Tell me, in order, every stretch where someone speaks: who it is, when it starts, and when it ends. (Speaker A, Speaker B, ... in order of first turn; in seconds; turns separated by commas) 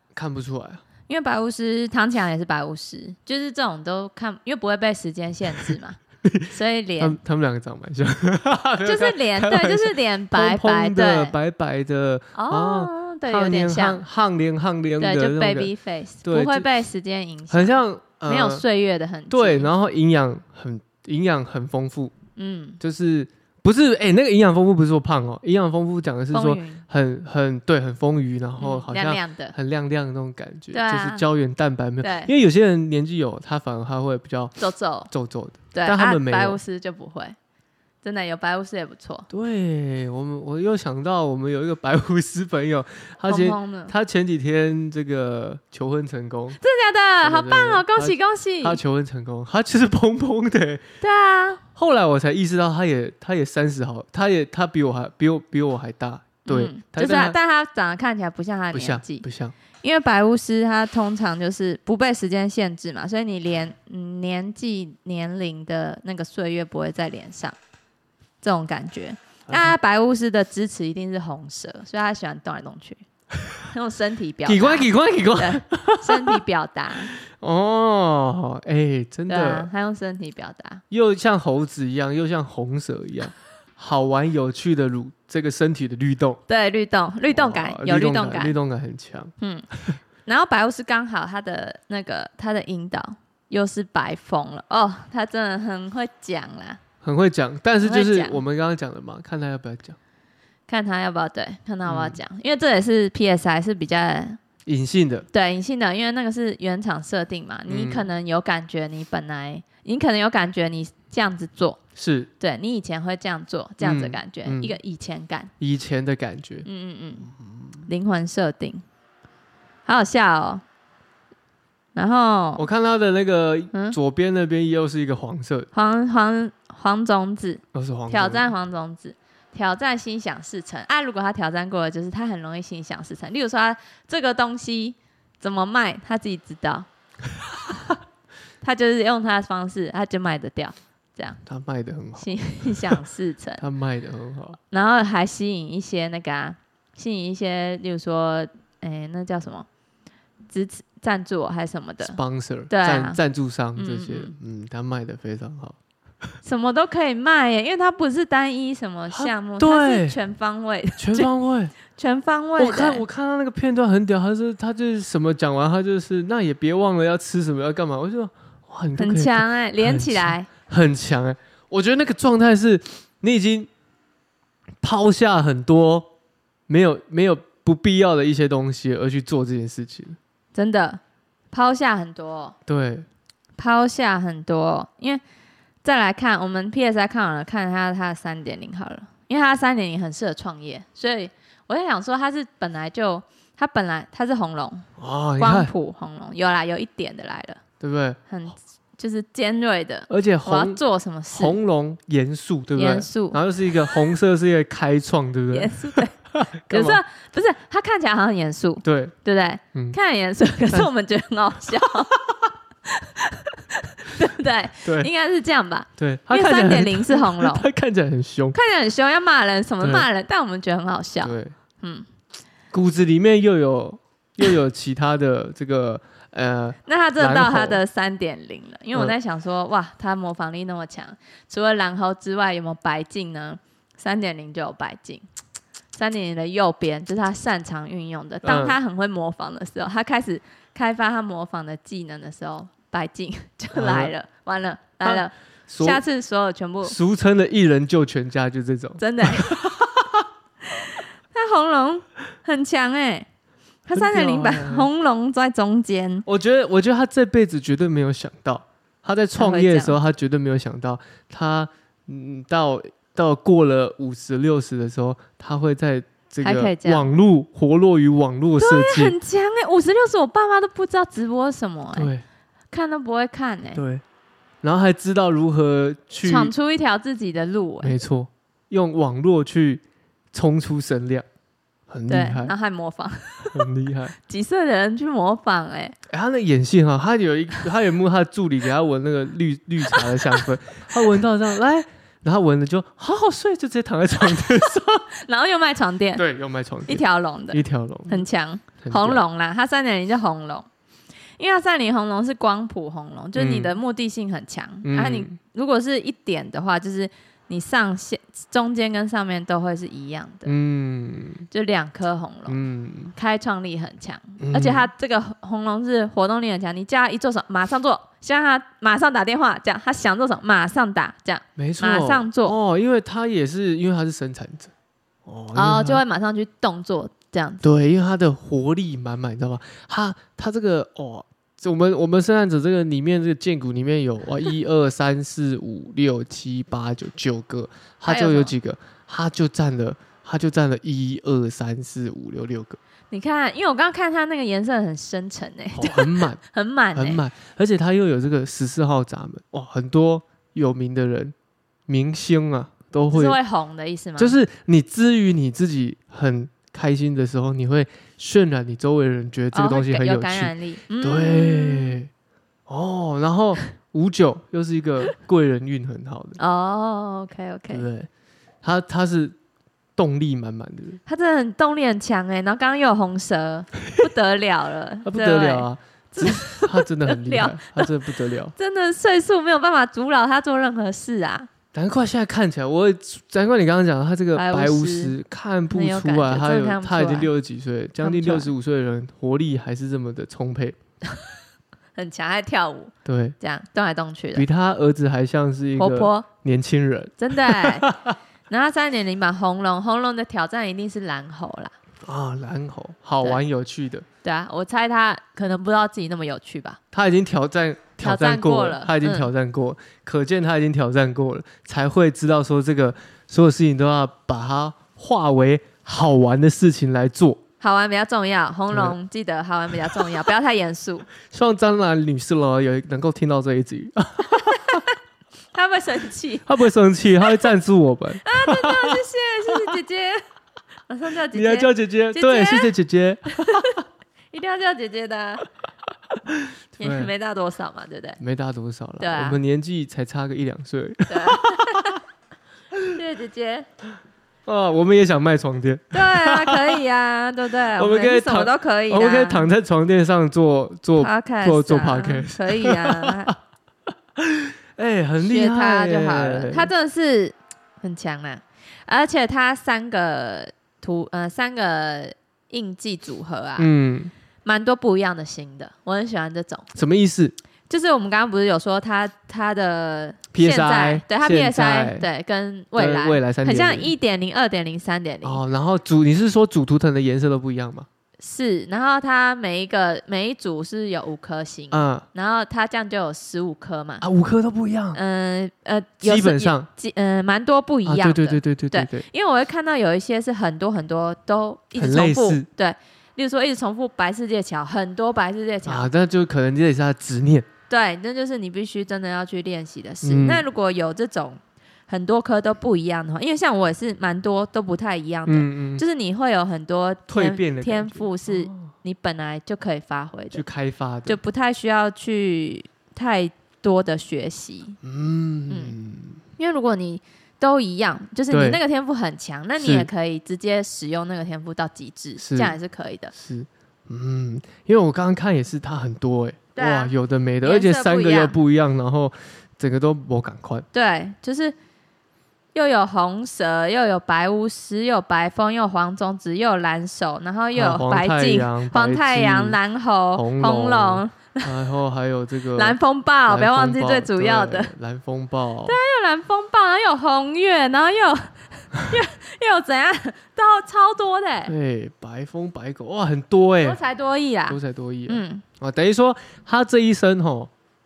Speaker A: 0.1-0.8, Speaker B: 1.1-6.0, Speaker A: 6.2-15.7, Speaker B: 6.5-7.2, Speaker B: 8.8-11.4, Speaker B: 12.3-14.0, Speaker B: 15.0-19.7, Speaker A: 16.2-16.7, Speaker A: 17.5-18.6, Speaker A: 19.3-22.1, Speaker B: 22.4-22.8, Speaker A: 22.8-34.5, Speaker B: 26.3-26.8, Speaker B: 28.6-29.6, Speaker B: 30.7-31.2, Speaker B: 32.0-32.3, Speaker B: 34.6-35.1, Speaker A: 35.1-36.6, Speaker B: 35.7-37.4, Speaker B: 38.0-39.3, Speaker A: 39.3-46.6, Speaker B: 43.3-43.9, Speaker B: 46.6-48.8, Speaker A: 47.2-50.9, Speaker B: 51.0-51.6, Speaker A: 51.8-57.4, Speaker B: 56.5-59.2, Speaker A: 58.7-59.6, Speaker B: 59.8-67.6, Speaker B: 68.4-73.0, Speaker A: 69.5-69.7, Speaker B: 73.7-77.1, Speaker A: 74.5-76.4, Speaker A: 77.1-79.7, Speaker B: 79.3-80.8, Speaker A: 80.9-86.4, Speaker B: 86.5-88.6, Speaker A: 87.3-89.3, Speaker B: 89.4-89.7, Speaker B: 90.3-96.8, Speaker A: 97.0-100.0, Speaker B: 97.8-98.4, Speaker B: 100.7-104.4, Speaker A: 101.9-102.2, Speaker A: 104.7-105.3, Speaker B: 105.3-111.8, Speaker A: 107.7-108.1, Speaker A: 112.0-112.3, Speaker B: 112.4-115.5, Speaker A: 113.8-114.8, Speaker A: 115.6-116.7, Speaker B: 116.7-117.3, Speaker A: 117.3-117.9, Speaker B: 117.9-118.8, Speaker B: 119.9-120.6, Speaker B: 122.0-122.6, Speaker A: 122.6-125.7, Speaker B: 125.7-136.9, Speaker A: 127.7-128.5, Speaker B: 138.6-141.4, Speaker A: 141.5-143.0, Speaker B: 142.2-143.6, Speaker A: 143.6-144.6, Speaker B: 144.7-149.7, Speaker B: 150.5-152.2, Speaker A: 152.0-155.8, Speaker B: 152.7-153.2, Speaker B: 153.8-154.3, Speaker B: 156.4-161.3, Speaker A: 159.1-160.2, Speaker A: 161.0-161.7, Speaker B: 161.9-163.0, Speaker A: 162.6-173.7, Speaker B: 169.0-170.5, Speaker A: 174.8-176.1, Speaker A: 176.7-180.2, Speaker B: 180.5-182.6, Speaker A: 182.7-183.1, Speaker B: 183.6-185.2, Speaker B: 185.8-194.9, Speaker A: 195.0-195.7, Speaker B: 195.4-197.6, Speaker A: 197.8-198.2, Speaker B: 198.3-201.6, Speaker A: 200.1-200.8, Speaker A: 201.3-207.0, Speaker B: 202.8-203.4, Speaker B: 205.5-206.2, Speaker B: 206.7-212.1, Speaker A: 208.8-209.1, Speaker B: 212.8-217.7, Speaker A: 214.8-215.1, Speaker A: 216.0-218.6, Speaker B: 218.5-222.1, Speaker A: 219.8-220.1, Speaker A: 221.2-221.6, Speaker A: 222.7-227.8, Speaker B: 226.8-235.2, Speaker B: 235.9-247.0, Speaker A: 238.4-238.8, Speaker A: 243.7-244.1, Speaker A: 245.0-246.0, Speaker A: 246.8-250.2, Speaker B: 249.0-249.6, Speaker B: 250.7-253.3, Speaker B: 253.9-256.2, Speaker A: 253.9-254.9, Speaker A: 256.3-269.1, Speaker B: 259.4-260.0, Speaker B: 266.4-267.1, Speaker B: 268.6-272.1, Speaker A: 271.9-272.2, Speaker B: 272.7-273.8, Speaker A: 273.8-274.0, Speaker A: 274.6-276.5, Speaker B: 276.2-277.9, Speaker A: 277.8-281.3, Speaker A: 281.9-282.5, Speaker B: 282.1-283.7, Speaker A: 283.5-284.2, Speaker B: 284.3-286.0, Speaker A: 286.1-295.1, Speaker B: 289.9-290.5, Speaker B: 295.1-296.2, Speaker A: 296.2-298.3, Speaker B: 296.9-300.7, Speaker A: 298.8-299.2, Speaker B: 301.4-310.5, Speaker A: 303.4-303.8, Speaker A: 304.8-305.4, Speaker A: 310.4-311.5, Speaker B: 311.5-312.6, Speaker A: 312.5-313.1, Speaker B: 313.1-322.6, Speaker A: 314.4-314.9, Speaker A: 321.6-324.7, Speaker A: 325.3-326.0, Speaker B: 325.5-327.6, Speaker A: 327.6-342.8, Speaker B: 338.1-338.6, Speaker B: 343.1-347.2, Speaker A: 345.8-346.4, Speaker A: 346.9-351.3, Speaker A: 351.9-353.4, Speaker B: 353.1-354.4, Speaker A: 354.2-362.1, Speaker B: 359.5-362.0, Speaker A: 362.7-366.4, Speaker B: 366.4-367.9, Speaker A: 367.7-368.1, Speaker A: 368.6-369.4, Speaker A: 370.0-371.0, Speaker B: 371.1-377.9, Speaker A: 375.1-378.5, Speaker B: 378.6-381.5, Speaker A: 381.7-390.8, Speaker B: 384.3-385.1, Speaker B: 385.7-387.3, Speaker B: 388.0-388.5, Speaker B: 391.9-394.4, Speaker A: 393.1-393.4, Speaker A: 394.3-398.2, Speaker B: 395.8-396.3, Speaker B: 397.2-397.9, Speaker B: 398.5-401.7, Speaker A: 402.1-404.1, Speaker B: 404.2-406.8, Speaker A: 406.9-417.4, Speaker B: 408.0-409.3, Speaker B: 417.6-421.1, Speaker A: 418.7-419.0, Speaker A: 421.3-424.8, Speaker B: 424.5-424.9, Speaker B: 425.5-426.5, Speaker A: 426.5-429.7, Speaker B: 427.2-427.5, Speaker B: 428.2-430.2, Speaker B: 430.9-432.7, Speaker A: 431.3-433.8, Speaker B: 433.5-433.7, Speaker B: 434.3-435.4, Speaker A: 436.3-437.1, Speaker B: 436.8-438.2, Speaker A: 438.2-442.0, Speaker B: 439.0-439.4, Speaker B: 441.1-442.0, Speaker B: 442.9-443.7, Speaker A: 444.5-446.8, Speaker B: 445.9-449.5, Speaker A: 447.8-453.4, Speaker B: 451.0-453.3, Speaker A: 454.2-456.7, Speaker B: 455.2-463.7, Speaker A: 463.6-464.1, Speaker B: 464.4-466.7, Speaker A: 466.7-467.4, Speaker B: 467.7-475.4, Speaker A: 470.3-472.1, Speaker A: 472.8-473.9, Speaker A: 475.2-477.9, Speaker B: 478.2-484.0, Speaker A: 481.7-482.1, Speaker A: 484.0-485.0, Speaker B: 484.9-495.9, Speaker A: 486.0-486.7, Speaker A: 487.9-489.1, Speaker A: 491.8-492.5, Speaker A: 495.7-497.5, Speaker B: 497.7-510.4, Speaker A: 500.0-500.4, Speaker A: 505.3-505.8, Speaker A: 507.1-508.7, Speaker A: 510.3-511.2, Speaker B: 511.1-514.8, Speaker A: 514.8-516.2, Speaker B: 516.4-523.1, Speaker A: 518.3-518.6, Speaker A: 519.6-519.9, Speaker A: 522.2-522.6, Speaker A: 523.1-530.7, Speaker B: 526.6-528.4, Speaker B: 530.7-531.6, Speaker B: 532.5-541.6, Speaker A: 537.5-539.6, Speaker A: 540.1-542.8, Speaker B: 542.5-544.7, Speaker A: 543.3-545.8, Speaker B: 545.7-551.5, Speaker A: 551.5-553.8, Speaker B: 553.6-555.4, Speaker A: 554.5-557.5